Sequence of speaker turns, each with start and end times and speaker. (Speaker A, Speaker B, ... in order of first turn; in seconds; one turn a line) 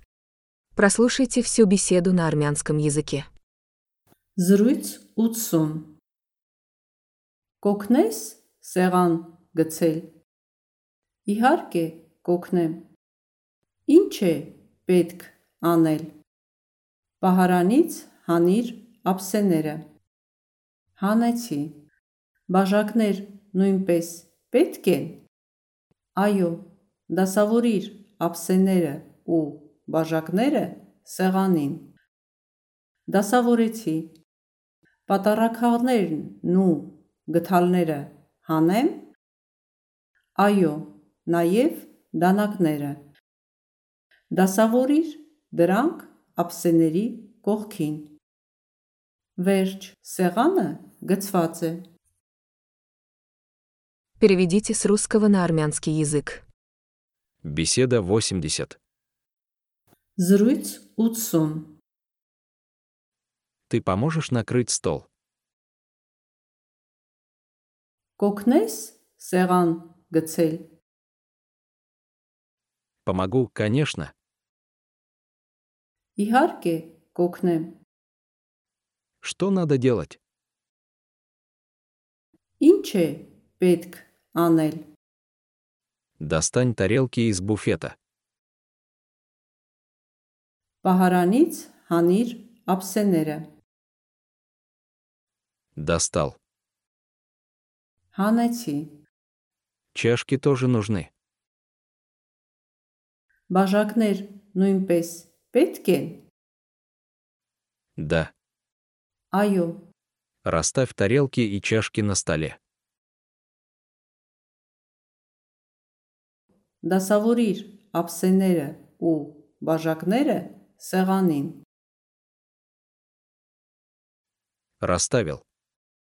Speaker A: 0.8-3.3
Speaker B: 4.4-5.9
Speaker B: 7.6-10.1
Speaker B: 11.3-12.8
Speaker B: 13.9-16.1
Speaker B: 17.2-19.8
Speaker B: 21.0-21.8
Speaker B: 22.5-25.2
Speaker B: 26.2-31.9
Speaker B: 33.1-34.1
Speaker B: 35.1-39.0
Speaker B: 40.4-43.0
Speaker B: 44.3-48.1
Speaker B: 49.4-51.8
Speaker A: 54.2-56.4
Speaker C: 57.4-58.8
Speaker B: 60.2-61.7
Speaker C: 63.7-65.1
Speaker B: 68.2-70.7
Speaker C: 73.0-74.1
Speaker B: 76.2-77.8
Speaker C: 79.2-80.2
Speaker B: 82.6-84.8
Speaker C: 86.2-87.9
Speaker B: 90.8-93.5
Speaker C: 95.8-96.4
Speaker B: 98.1-99.0
Speaker C: 99.9-101.1
Speaker B: 103.5-106.2
Speaker C: 108.0-108.3
Speaker B: 109.3-109.8
Speaker C: 110.4-112.6
Speaker B: 116.8-121.6
Speaker C: 124.8-125.4